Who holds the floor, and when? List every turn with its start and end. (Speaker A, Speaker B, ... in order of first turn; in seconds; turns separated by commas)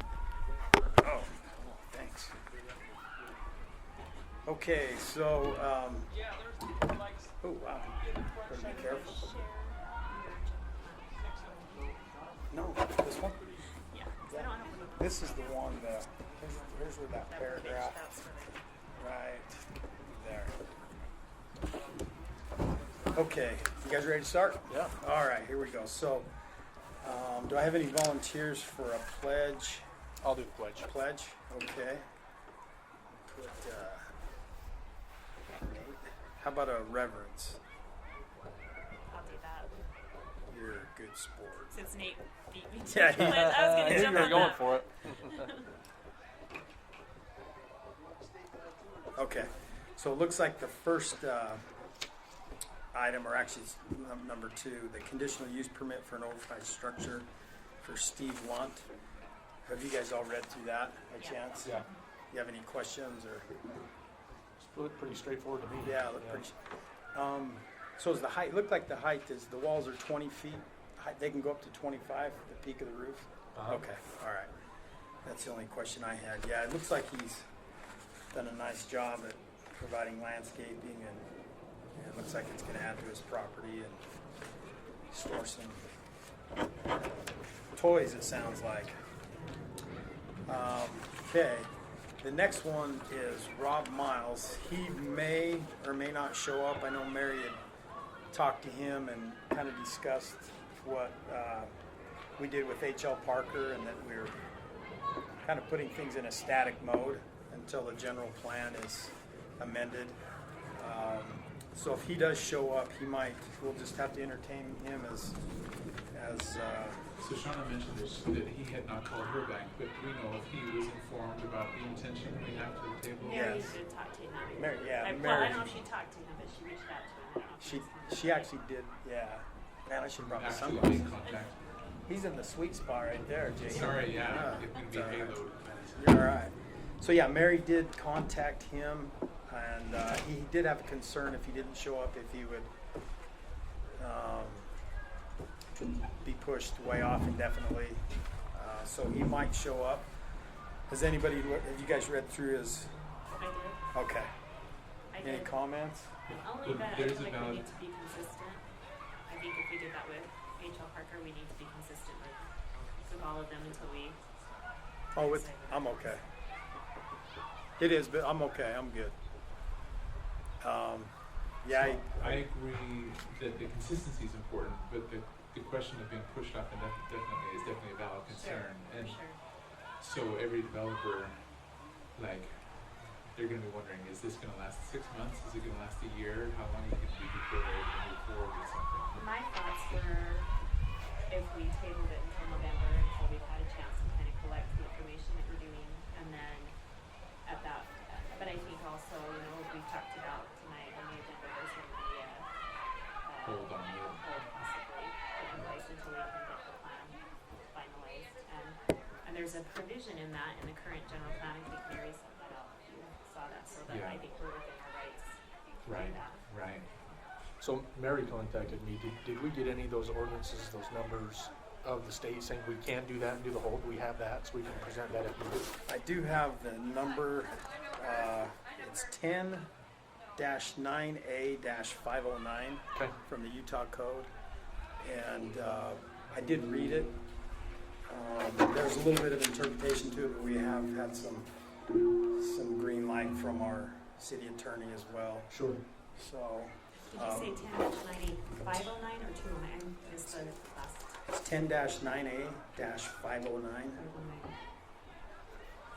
Speaker A: 1.0-2.3, Speaker A: 4.4-6.1, Speaker A: 7.4-7.9, Speaker A: 8.4-9.1, Speaker B: 8.5-12.0, Speaker A: 12.5-13.5, Speaker B: 13.9-15.7, Speaker A: 14.3-18.0, Speaker B: 17.3-18.6, Speaker A: 18.9-20.6, Speaker A: 23.1-26.3, Speaker C: 24.7-24.9, Speaker A: 27.0-29.9, Speaker C: 30.2-30.9, Speaker A: 30.8-32.0, Speaker A: 33.2-34.1, Speaker A: 35.5-37.6, Speaker B: 39.1-39.7, Speaker A: 40.5-41.8, Speaker B: 41.7-45.7, Speaker A: 42.9-44.5, Speaker C: 43.3-44.9, Speaker A: 49.1-51.6, Speaker A: 52.9-57.3, Speaker A: 57.8-58.9, Speaker A: 59.6-63.5, Speaker B: 61.2-61.9, Speaker C: 64.6-66.4, Speaker A: 65.8-66.6, Speaker A: 67.1-74.5, Speaker C: 73.5-73.8, Speaker A: 75.2-77.5, Speaker A: 78.3-81.3, Speaker A: 82.0-84.0, Speaker A: 85.1-85.8, Speaker A: 87.8-89.0, Speaker B: 89.3-89.7, Speaker A: 90.5-97.6, Speaker A: 98.3-101.7, Speaker A: 102.4-104.3, Speaker A: 105.4-110.2, Speaker A: 110.7-115.4, Speaker A: 116.1-117.0, Speaker D: 117.2-123.6, Speaker B: 123.2-128.5, Speaker A: 123.3-123.8, Speaker A: 124.6-125.8, Speaker A: 127.6-131.1, Speaker D: 130.2-131.6, Speaker A: 132.1-135.4, Speaker D: 133.6-136.2, Speaker A: 135.9-142.7, Speaker A: 144.0-144.7, Speaker A: 146.2-150.1, Speaker A: 150.9-152.9, Speaker B: 153.4-153.8, Speaker A: 153.9-154.3, Speaker B: 155.1-155.5, Speaker A: 155.2-156.1, Speaker B: 156.3-158.6, Speaker D: 156.6-157.6, Speaker B: 159.3-164.2, Speaker A: 165.1-166.2, Speaker B: 165.2-166.1, Speaker A: 167.8-169.2, Speaker A: 170.6-172.5, Speaker D: 171.7-179.2, Speaker B: 178.3-179.4, Speaker D: 180.0-181.4, Speaker D: 182.2-182.7, Speaker D: 183.3-189.2, Speaker B: 189.1-190.5, Speaker B: 191.3-196.7, Speaker B: 197.4-202.5, Speaker B: 203.2-216.4, Speaker D: 203.4-204.3, Speaker D: 213.9-214.2, Speaker D: 215.8-216.9, Speaker C: 217.6-225.7, Speaker A: 225.9-229.7, Speaker A: 230.3-234.3, Speaker A: 235.0-237.2, Speaker A: 238.1-241.5, Speaker A: 242.3-245.5, Speaker C: 245.5-245.8, Speaker A: 246.1-247.5, Speaker B: 247.0-251.2, Speaker A: 251.3-254.0, Speaker B: 253.9-254.5